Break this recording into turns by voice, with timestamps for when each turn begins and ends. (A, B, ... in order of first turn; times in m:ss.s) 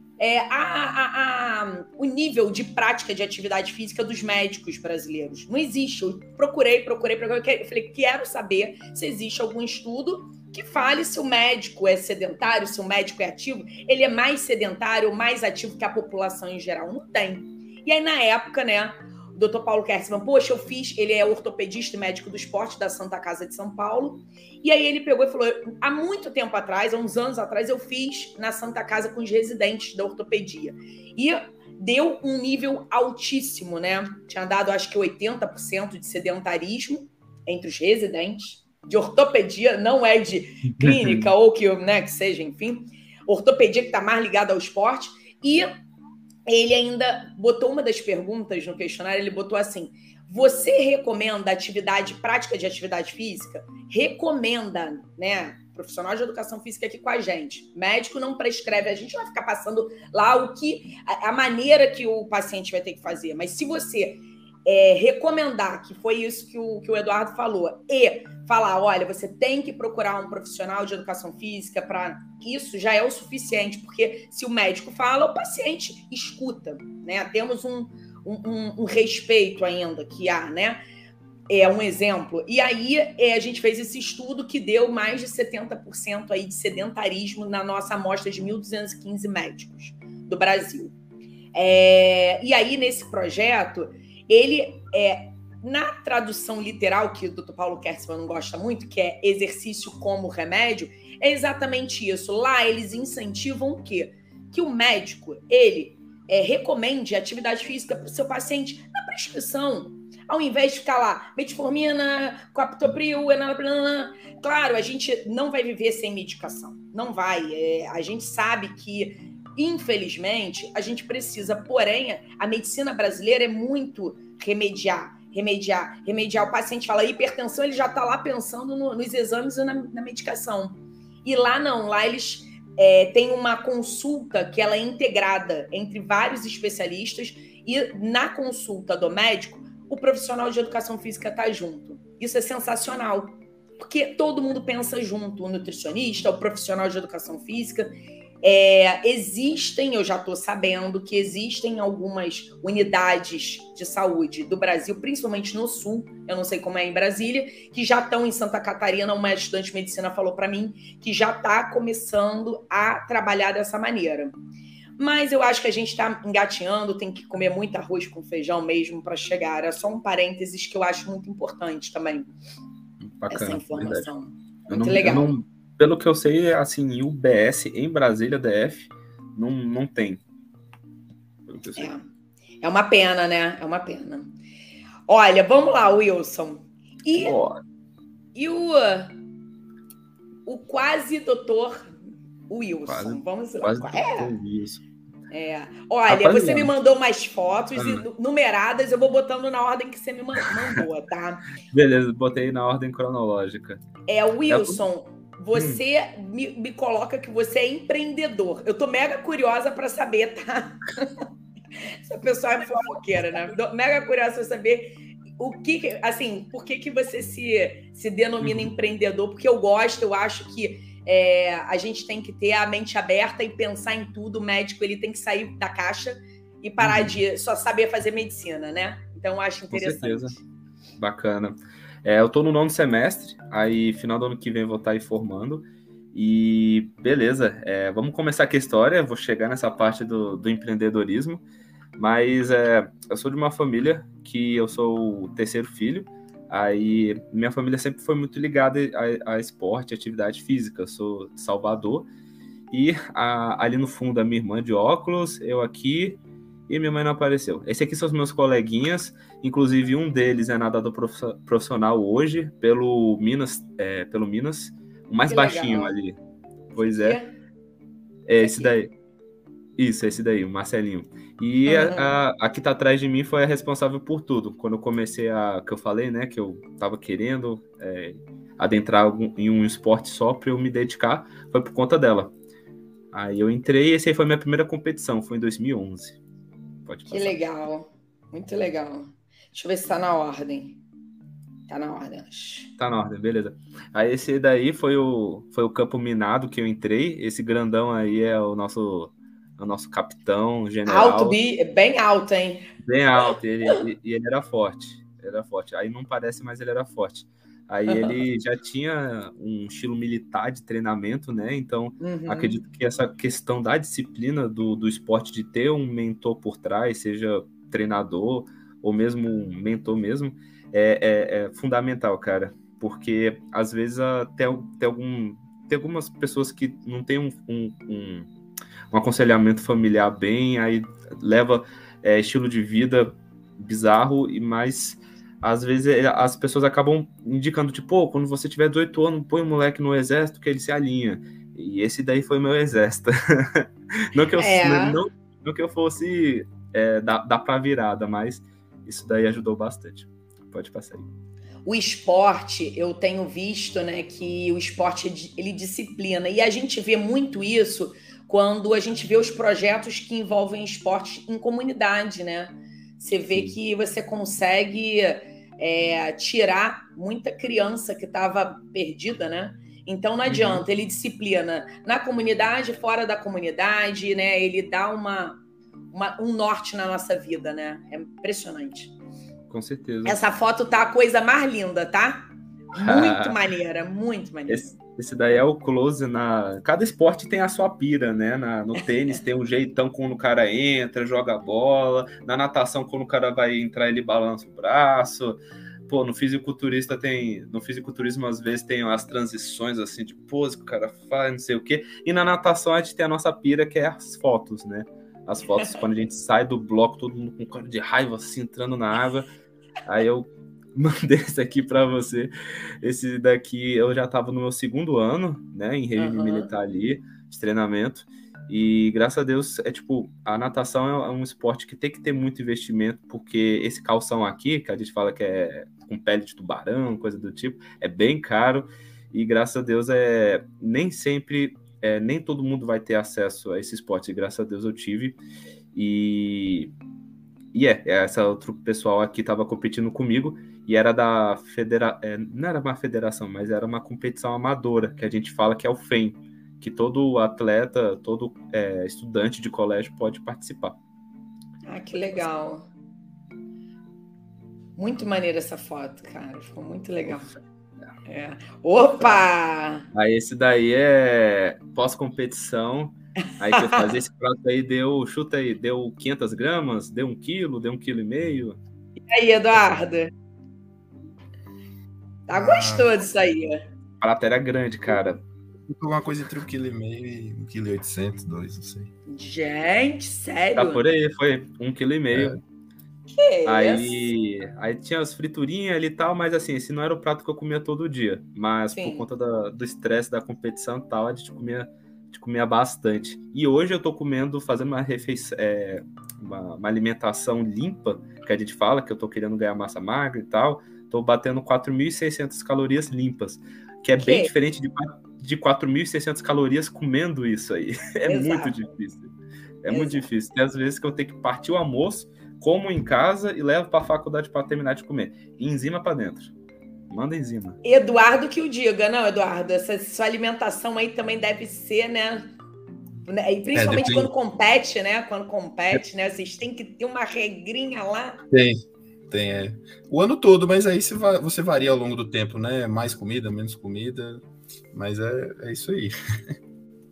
0:00.2-0:45.7 A
0:40.8-0:41.3 B
0:46.5-1:20.8 A
1:21.5-1:31.0 A
1:31.6-2:44.4 A
2:45.0-2:52.3 A
2:53.0-2:54.1 B
2:53.3-2:55.3 A
2:54.7-3:00.2 B
3:01.5-3:01.9 B
3:01.8-3:02.0 A
3:02.6-3:04.4 A
3:05.1-3:07.4 A
3:07.2-3:07.6 B
3:08.4-3:09.2 A
3:10.4-3:12.0 A
3:12.5-3:14.3 A
3:12.9-3:14.8 B
3:15.3-3:21.5 A
3:16.1-3:16.7 B
3:17.7-3:18.0 B
3:21.7-3:23.8 B
3:24.1-3:31.2 A
3:24.5-3:24.8 B
3:25.5-3:25.8 B
3:31.8-3:50.4 A
3:38.4-3:38.7 B
3:46.8-3:47.2 B
3:49.7-3:50.4 B
3:51.0-4:01.4 B
4:02.0-4:12.1 B
4:12.7-4:26.2 B
4:25.2-4:25.9 A
4:26.7-4:27.2 B
4:26.8-4:27.4 A
4:28.3-4:28.9 B
4:28.4-4:28.7 A
4:29.8-4:42.3 B
4:31.6-4:32.1 A
4:43.1-4:46.2 B
4:46.8-4:47.4 B
4:47.1-4:50.8 A
4:51.7-4:52.7 A
4:52.8-5:01.4 B
5:00.9-5:02.7 A
5:02.8-5:28.3 B
5:07.9-5:08.2 A
5:12.0-5:12.6 A
5:28.9-5:51.1 B
5:44.4-5:45.0 A
5:51.6-6:15.4 A
6:10.2-6:10.6 B
6:15.9-6:18.9 A
6:19.5-6:20.2 B
6:20.1-6:24.8 A
6:22.8-6:23.4 B
6:24.5-6:49.3 B
6:49.8-7:15.2 B
6:56.0-6:56.5 A
7:15.7-7:16.7 B
7:17.5-7:30.8 B
7:31.6-7:32.6 A
7:34.8-7:37.3 A
7:37.1-7:37.9 B
7:38.1-7:39.9 A
7:39.9-7:48.6 B
7:43.4-7:44.0 A
7:49.1-7:50.1 A
7:52.3-7:53.6 A
7:52.3-7:52.9 C
7:54.0-7:55.2 B
7:55.7-7:58.9 C
7:59.1-8:00.8 A
8:00.6-8:02.4 B
8:02.1-8:02.4 C
8:03.1-8:04.1 A
8:03.4-8:36.3 B
8:08.7-8:09.1 A
8:24.0-8:24.3 A
8:28.0-8:28.6 A
8:29.7-8:30.1 A
8:36.9-8:37.6 B
8:37.6-8:42.3 A
8:43.0-8:48.2 A
8:43.5-8:44.1 C
8:48.3-8:56.3 C